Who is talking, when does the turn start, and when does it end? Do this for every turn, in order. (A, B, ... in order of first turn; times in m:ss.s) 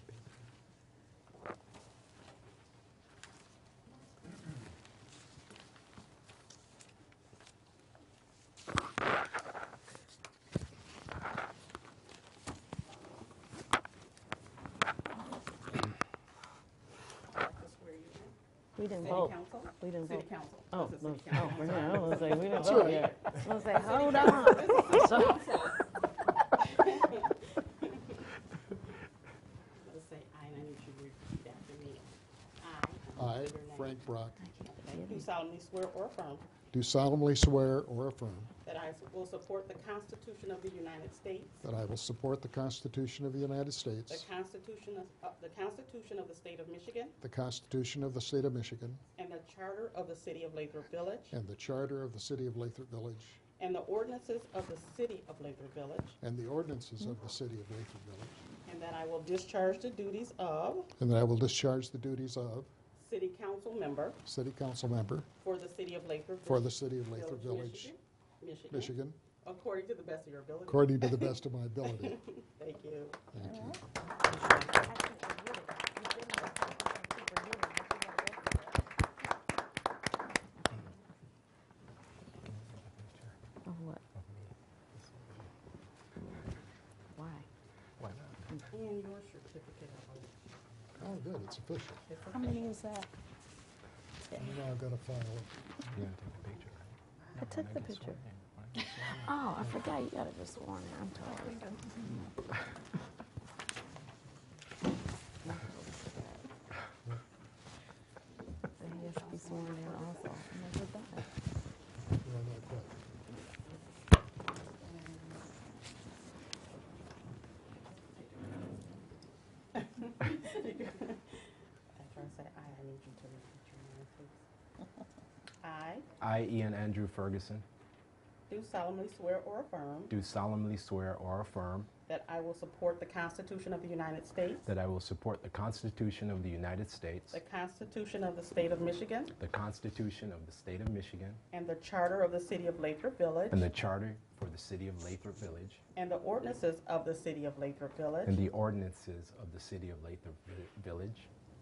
0:17.3-0:18.4 A
0:18.8-0:25.4 B
0:19.0-0:25.9 A
0:22.5-0:23.1 C
0:26.4-0:28.3 A
0:29.8-0:34.0 A
0:33.2-0:34.4 C
0:34.4-0:35.3 B
0:34.7-0:36.4 A
0:36.7-0:38.5 C
0:38.6-0:41.6 A
0:41.6-0:44.3 C
0:44.1-0:47.2 A
0:47.2-0:49.0 C
0:49.2-0:51.3 A
0:51.3-0:53.4 C
0:53.6-0:56.2 A
0:56.2-0:58.4 C
0:58.7-1:00.9 A
1:01.0-1:02.7 C
1:03.0-1:04.2 A
1:04.2-1:05.3 C
1:05.4-1:11.3 A
1:06.4-1:07.9 C
1:08.7-1:09.2 C
1:10.7-1:12.2 C
1:11.9-1:13.2 A
1:13.4-1:13.8 C
1:14.2-1:15.0 A
1:14.8-1:18.8 B
1:22.5-1:23.4 D
1:23.7-1:24.0 B
1:24.2-1:25.5 D
1:27.2-1:27.5 B
1:28.0-1:28.5 D
1:28.7-1:30.3 A
1:31.0-1:32.0 C
1:32.1-1:32.7 A
1:32.4-1:33.1 B
1:34.3-1:35.5 C
1:35.9-1:39.2 D
1:37.4-1:38.2 B
1:39.1-1:41.7 B
1:45.4-1:46.4 B
1:48.8-1:51.3 B
1:48.8-1:50.3 A
1:52.2-1:53.0 C
1:54.5-1:55.6 A
1:58.1-1:58.6 A
1:59.7-2:01.2 A
2:02.0-2:04.4 A
2:05.6-2:06.1 A
2:06.2-2:07.6 D
2:08.5-2:10.1 A
2:10.1-2:11.9 D
2:12.1-2:14.6 A
2:14.6-2:17.4 D
2:17.3-2:19.3 A
2:19.4-2:21.4 D
2:21.5-2:23.7 A
2:23.5-2:25.8 D
2:26.0-2:28.4 A
2:28.3-2:31.3 D